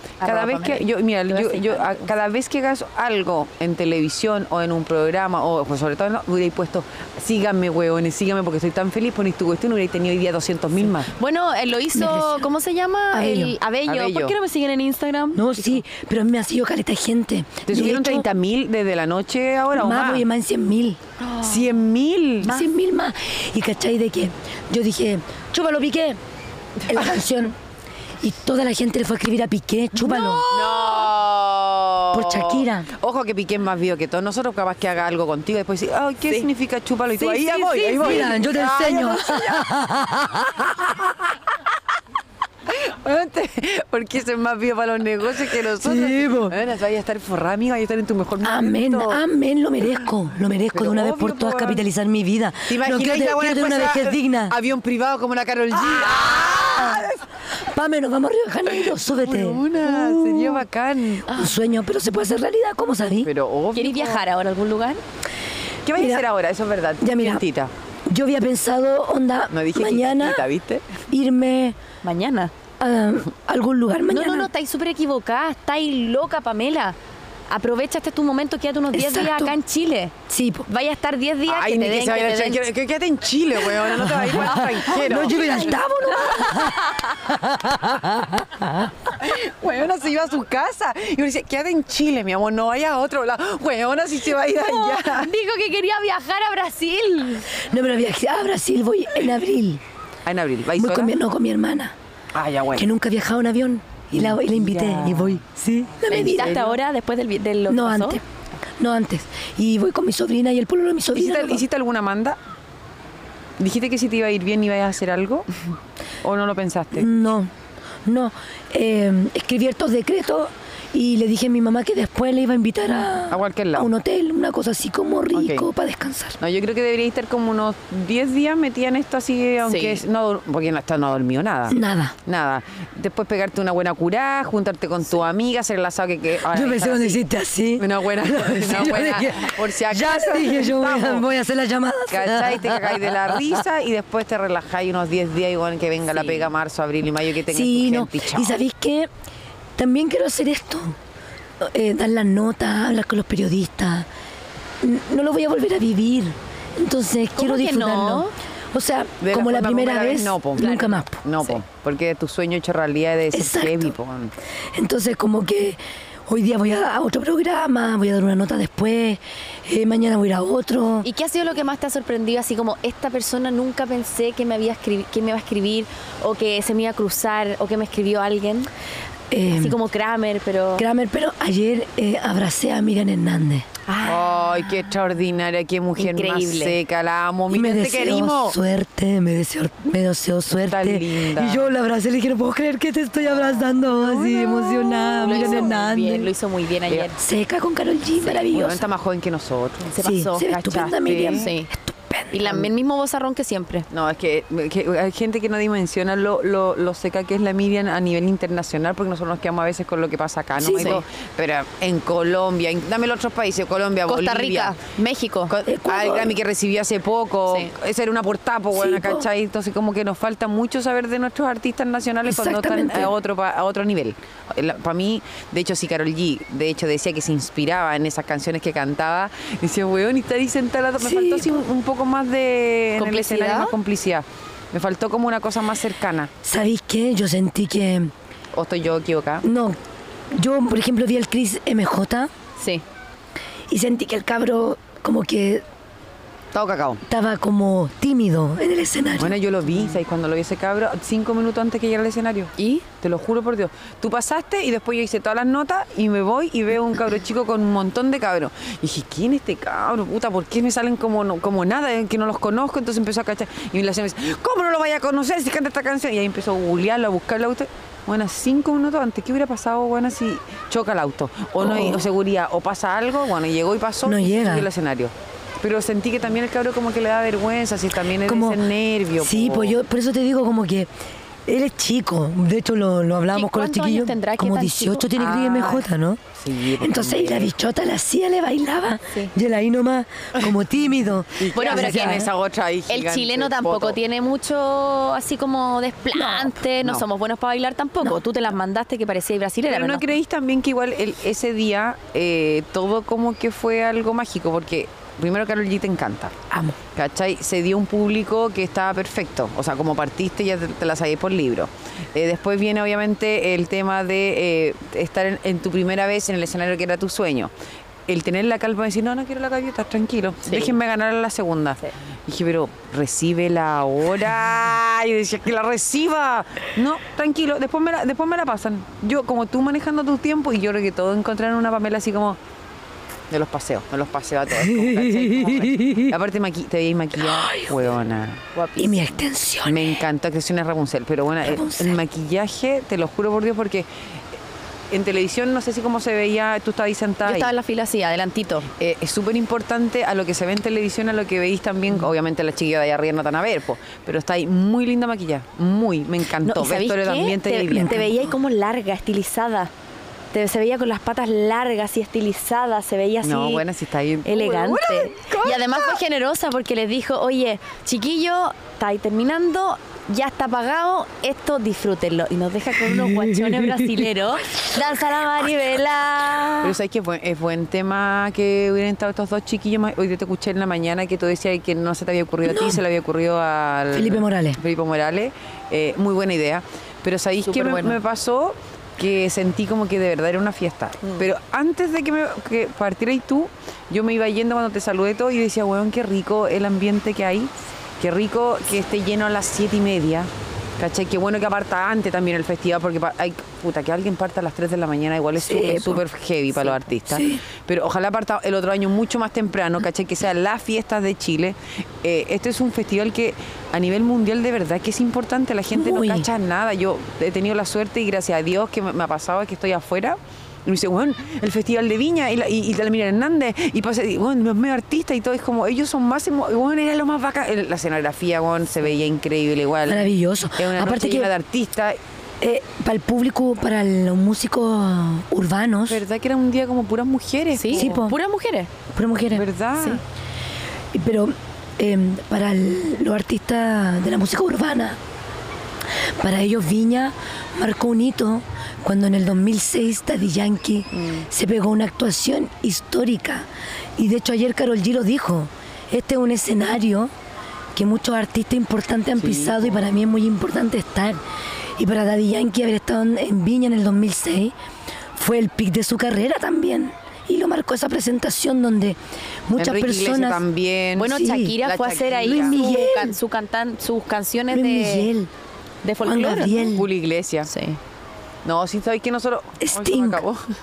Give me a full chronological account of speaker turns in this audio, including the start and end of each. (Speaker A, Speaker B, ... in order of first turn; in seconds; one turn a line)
Speaker A: 0.2-2.1
Speaker B: 0.2-11.1
Speaker A: 11.1-15.8
Speaker C: 11.9-12.5
Speaker C: 13.1-13.6
Speaker B: 13.9-14.4
Speaker C: 15.3-18.3
Speaker B: 17.7-20.2
Speaker C: 19.7-21.0
Speaker A: 21.2-21.8
Speaker B: 21.4-22.6
Speaker C: 22.4-26.2
Speaker C: 26.9-27.6
Speaker C: 28.2-30.5
Speaker A: 30.0-31.1
Speaker B: 30.5-39.7
Speaker C: 32.1-32.9
Speaker A: 37.2-38.3
Speaker C: 38.0-40.7
Speaker B: 40.7-41.4
Speaker B: 42.7-49.2
Speaker C: 45.8-46.6
Speaker C: 48.4-54.5
Speaker B: 50.7-51.8
Speaker B: 52.7-57.2
Speaker C: 55.9-60.7
Speaker B: 58.7-61.4
Speaker C: 61.3-63.3
Speaker B: 63.2-64.2
Speaker A: 63.8-65.0
Speaker B: 65.9-67.7
Speaker C: 66.0-66.2
Speaker C: 67.0-67.4
Speaker C: 68.1-70.5
Speaker B: 69.5-70.9
Speaker C: 71.1-71.8
Speaker A: 72.0-72.5
Speaker C: 72.8-74.5
Speaker A: 74.1-77.0
Speaker A: 77.5-80.2
Speaker C: 78.9-79.5
Speaker C: 80.3-80.7
Speaker A: 80.7-82.6
Speaker B: 81.5-85.7
Speaker C: 84.0-88.9
Speaker A: 84.3-87.2
Speaker B: 89.1-95.3
Speaker A: 94.5-97.5
Speaker C: 97.6-99.8
Speaker B: 100.3-101.2
Speaker C: 100.8-101.9
Speaker B: 102.3-102.9
Speaker C: 102.8-106.6
Speaker B: 104.1-105.4
Speaker B: 106.1-106.8
Speaker A: 106.1-108.2
Speaker C: 107.7-108.2
Speaker C: 108.8-111.6
Speaker B: 111.1-112.4
Speaker B: 113.6-115.5
Speaker B: 116.2-117.1
Speaker C: 116.9-117.5
Speaker C: 118.0-126.4
Speaker B: 123.3-123.9
Speaker B: 125.3-125.7
Speaker B: 126.4-137.2
Speaker A: 129.6-130.0
Speaker C: 131.7-132.2
Speaker C: 136.5-143.6
Speaker B: 137.8-141.3
Speaker B: 142.1-148.6
Speaker A: 146.1-146.5
Speaker C: 147.5-149.1
Speaker C: 149.8-151.0
Speaker C: 151.6-154.1
Speaker C: 154.8-161.2
Speaker A: 157.3-158.3
Speaker B: 159.2-164.3
Speaker A: 160.6-161.0
Speaker C: 163.3-163.9
Speaker C: 164.8-171.1
Speaker A: 171.0-178.7
Speaker C: 179.3-179.8
Speaker A: 179.5-180.9
Speaker C: 180.8-183.7
Speaker A: 183.9-184.5
Speaker B: 184.1-188.6
Speaker A: 186.0-186.8
Speaker C: 187.5-196.3
Speaker B: 190.5-191.7
Speaker B: 193.3-195.7
Speaker A: 195.2-197.2
Speaker C: 197.2-198.8
Speaker B: 198.2-201.5
Speaker A: 199.9-200.6
Speaker C: 200.0-202.6
Speaker A: 201.2-201.7
Speaker A: 202.3-203.9
Speaker B: 203.9-214.8
Speaker C: 210.6-211.0
Speaker A: 210.7-211.0
Speaker A: 214.1-215.5
Speaker B: 215.5-236.3
Speaker C: 215.7-216.4
Speaker C: 218.7-219.3
Speaker C: 222.3-223.1
Speaker C: 231.0-231.6
Speaker A: 233.0-233.8
Speaker C: 236.4-238.1
Speaker B: 238.5-239.5
Speaker C: 239.4-239.8
Speaker C: 240.3-242.3
Speaker A: 242.6-242.8
Speaker C: 243.7-245.7
Speaker B: 246.5-247.0
Speaker C: 247.1-249.4
Speaker B: 249.2-279.8
Speaker A: 252.6-252.8
Speaker C: 271.6-272.1
Speaker C: 274.1-274.7
Speaker C: 278.2-278.6
Speaker C: 279.2-280.9
Speaker C: 281.5-286.2
Speaker A: 283.3-285.1
Speaker B: 285.2-285.9
Speaker B: 286.4-287.5
Speaker C: 286.8-292.3
Speaker B: 291.4-294.0
Speaker A: 291.6-292.3
Speaker A: 292.9-300.1
Speaker C: 296.2-296.5
Speaker B: 299.7-317.5
Speaker C: 306.5-306.8
Speaker B: 318.1-332.4
Speaker A: 320.5-320.7
Speaker B: 333.3-338.4
Speaker C: 334.5-336.1
Speaker C: 337.2-337.8
Speaker A: 338.6-339.1
Speaker C: 338.8-340.0
Speaker B: 339.6-343.9
Speaker C: 341.4-342.0
Speaker B: 344.9-347.5
Speaker A: 347.2-348.7
Speaker B: 348.8-358.1
Speaker A: 356.4-359.7
Speaker C: 357.7-358.0
Speaker A: 360.3-363.6
Speaker B: 363.2-366.0
Speaker A: 364.2-376.8
Speaker C: 372.9-373.9
Speaker B: 376.6-432.0
Speaker C: 382.5-382.8
Speaker C: 383.9-384.6
Speaker A: 387.5-388.0
Speaker C: 405.4-406.0
Speaker C: 407.1-407.4
Speaker C: 415.7-416.3
Speaker C: 429.9-431.3
Speaker C: 432.4-436.0
Speaker B: 435.9-438.0
Speaker A: 437.6-438.7
Speaker C: 437.8-438.2
Speaker C: 438.9-439.5
Speaker B: 439.3-440.0
Speaker C: 440.9-445.0
Speaker C: 446.1-457.1
Speaker C: 457.8-461.2
Speaker B: 459.2-459.7
Speaker C: 461.8-464.5
Speaker C: 465.1-470.4
Speaker B: 469.6-472.7
Speaker A: 471.0-475.1
Speaker C: 471.1-471.6
Speaker C: 472.2-473.2
Speaker C: 474.5-475.3
Speaker A: 475.8-476.8
Speaker C: 476.0-476.9
Speaker B: 476.7-477.5
Speaker A: 477.5-477.8
Speaker B: 478.4-480.4
Speaker C: 479.6-480.2